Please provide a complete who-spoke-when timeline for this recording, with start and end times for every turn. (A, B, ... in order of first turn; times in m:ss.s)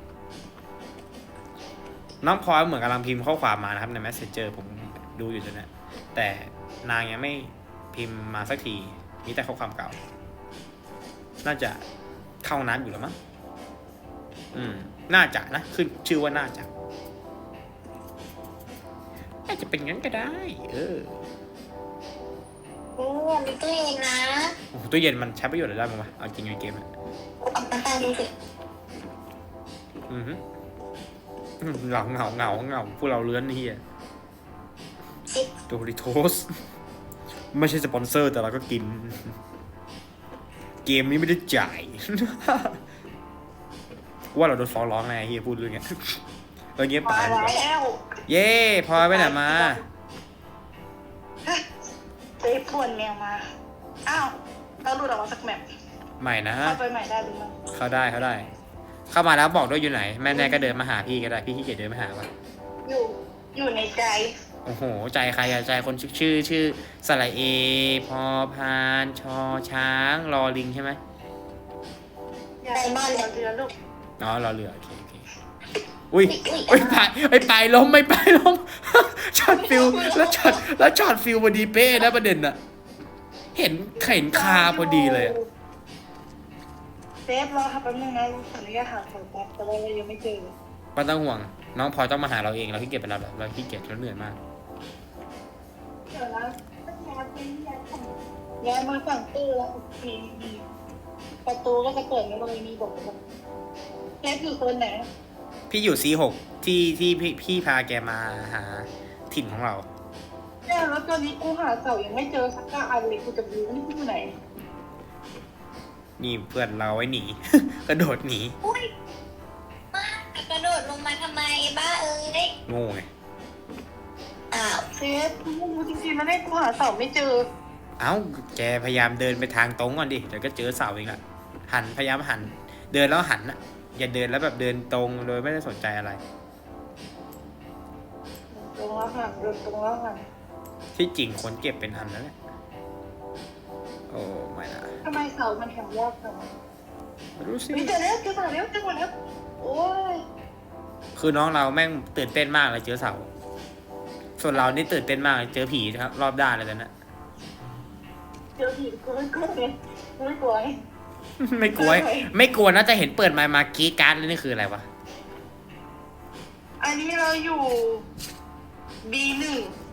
0:02.2-0:10.0 A
0:11.4-0:11.8 A
0:12.4-0:13.2 A
0:14.5-0:16.7 A
0:19.5-0:21.2 A
0:23.0-0:24.6 B
0:24.7-0:26.9 A
0:27.4-0:28.3 B
0:30.1-0:30.4 A
0:31.6-0:33.8 A
0:35.7-0:36.5 A
0:37.5-0:39.3 A
0:40.8-0:42.8 A
0:44.3-0:46.2 A
0:46.8-0:47.5 A
0:47.0-0:48.1 C
0:48.3-0:49.8 A
0:49.0-0:49.8 C
0:52.4-0:53.4 C
0:54.0-0:55.6 C
0:56.2-0:56.8 A
0:56.6-0:57.6 C
0:57.7-0:58.5 A
0:59.1-1:02.3 A
1:00.2-1:00.7 C
1:02.8-1:04.3 C
1:04.6-1:11.0 A
1:12.6-1:13.7 C
1:12.7-1:13.3 B
1:14.2-1:15.2 A
1:16.1-1:22.6 A
1:16.3-1:17.0 B
1:19.6-1:20.6 C
1:23.5-1:25.3 A
1:24.1-1:25.4 C
1:27.2-1:30.5 C
1:31.0-1:34.4 A
1:36.1-1:40.6 C
1:41.4-1:43.2 C
1:44.2-1:45.1 C
1:45.7-1:49.9 A
1:50.6-1:54.3 C
1:56.2-1:58.6 A
1:58.6-1:58.9 B
1:59.9-2:02.5 B
2:02.7-2:03.1 A
2:04.5-2:04.8 B
2:04.9-2:07.4 C
2:08.0-2:16.2 A
2:18.5-2:20.2 C
2:20.9-2:22.3 A
2:24.1-2:24.9 A
2:25.0-2:26.5 C
2:27.4-2:27.9 A
2:27.7-2:30.2 C
2:31.2-2:33.3 A
2:34.4-2:36.9 A
2:38.6-2:40.8 C
2:41.4-2:44.9 A
2:41.7-2:42.3 C
2:46.8-2:48.0 C
2:49.0-2:49.7 C